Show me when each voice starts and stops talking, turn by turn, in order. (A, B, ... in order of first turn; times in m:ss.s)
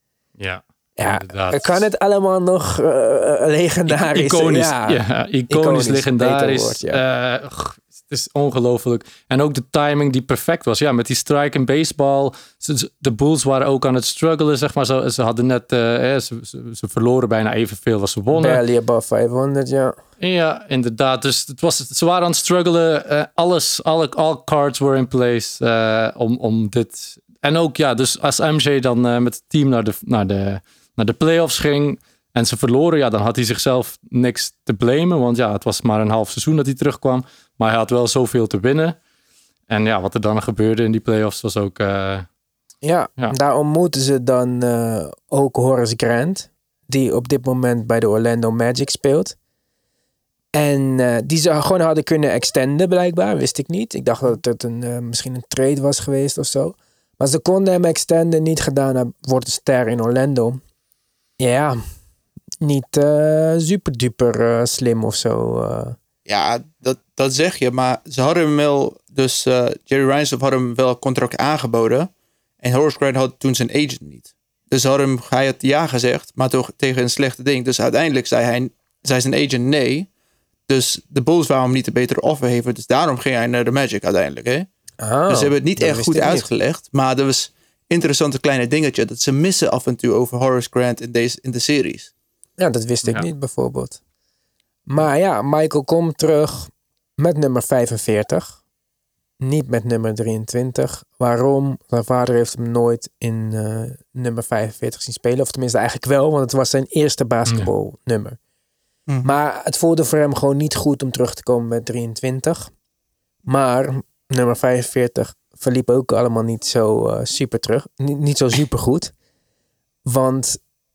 0:00.4-0:01.8 A
0:01.0-0:07.0 B
0:03.9-0:18.6 A
0:18.3-0:20.0 B
0:20.2-0:39.0 A
0:39.7-0:42.3 A
0:42.8-0:49.4 B
0:50.5-1:00.6 B
1:01.4-1:01.8 B
1:02.6-1:06.0 B
1:06.3-1:12.1 C
1:12.6-1:20.1 C
1:20.7-1:24.7 C
1:25.0-1:26.5 B
1:25.3-1:32.1 C
1:32.6-1:34.0 B
1:34.9-1:38.6 B
1:39.4-1:48.4 B
1:49.2-1:52.7 B
1:53.5-1:59.1 B
2:00.0-2:00.6 B